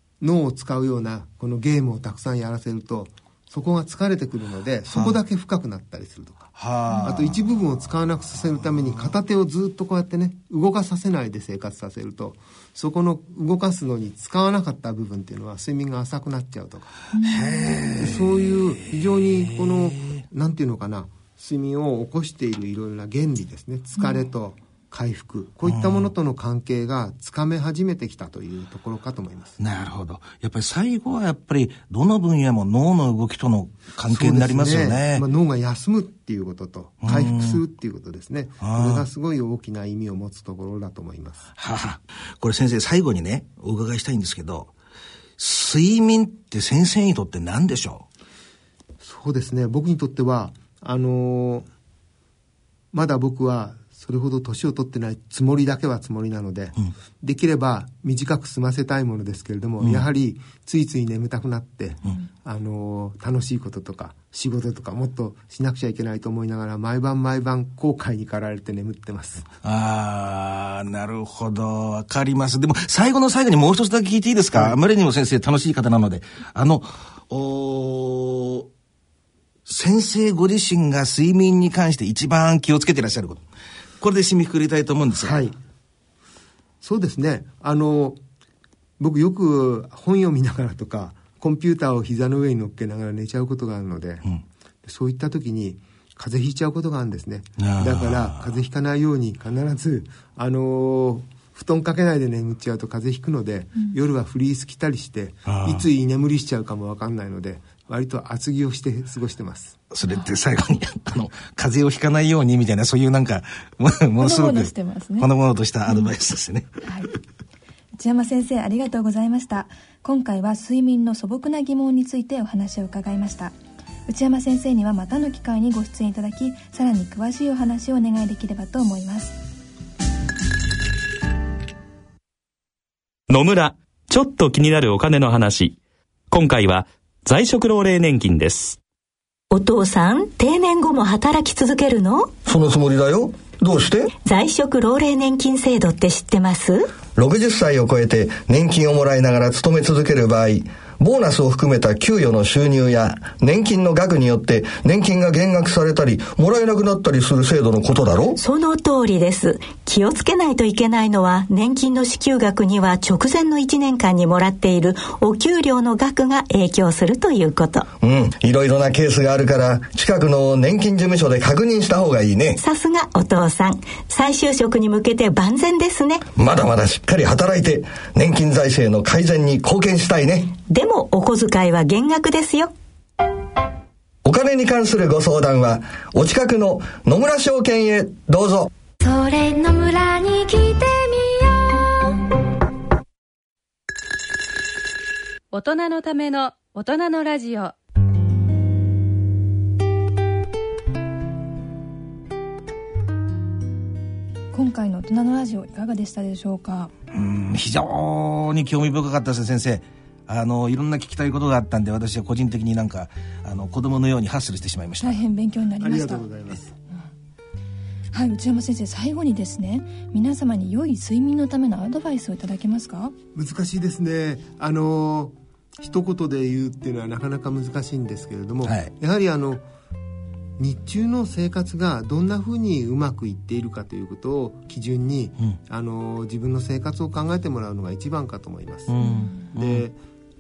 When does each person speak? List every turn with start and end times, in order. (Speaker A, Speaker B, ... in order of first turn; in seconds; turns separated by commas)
Speaker A: 0.2-6.5, Speaker B: 4.9-5.2, Speaker B: 6.5-7.6, Speaker C: 6.9-7.2, Speaker A: 7.0-16.9, Speaker C: 17.1-17.9, Speaker B: 17.2-20.1, Speaker A: 18.0-29.6, Speaker C: 24.0-24.2, Speaker B: 25.6-26.1, Speaker B: 29.6-35.2, Speaker A: 34.1-41.5, Speaker B: 37.0-37.6, Speaker B: 38.6-39.1, Speaker B: 41.6-44.7, Speaker B: 45.4-48.1, Speaker A: 49.0-51.7, Speaker A: 52.9-69.5, Speaker B: 59.8-60.0, Speaker B: 69.6-78.7, Speaker B: 79.7-83.4, Speaker B: 84.0-85.4, Speaker A: 85.2-85.6, Speaker A: 86.8-88.2, Speaker A: 89.0-94.2, Speaker A: 94.8-109.8, Speaker B: 97.6-98.5, Speaker B: 105.5-105.8, Speaker B: 109.9-116.8, Speaker C: 114.2-115.3, Speaker C: 116.8-117.1, Speaker C: 118.0-123.5, Speaker C: 124.1-129.4, Speaker D: 133.3-135.8, Speaker D: 136.3-138.8, Speaker E: 139.5-142.3, Speaker F: 142.4-144.1, Speaker E: 144.1-147.0, Speaker F: 147.1-158.4, Speaker E: 158.4-167.9, Speaker F: 168.0-172.6, Speaker E: 172.6-176.2, Speaker F: 176.3-180.5, Speaker E: 180.5-182.7, Speaker F: 184.2-188.7, Speaker G: 189.0-192.3, Speaker H: 195.5-197.7, Speaker C: 204.5-206.9, Speaker B: 207.1-215.2, Speaker C: 215.0-216.3, Speaker A: 215.8-216.7, Speaker C: 218.1-223.1, Speaker A: 223.3-229.6, Speaker B: 228.6-228.9, Speaker A: 230.6-239.0, Speaker B: 238.9-239.9, Speaker C: 239.0-239.5, Speaker A: 239.5-240.0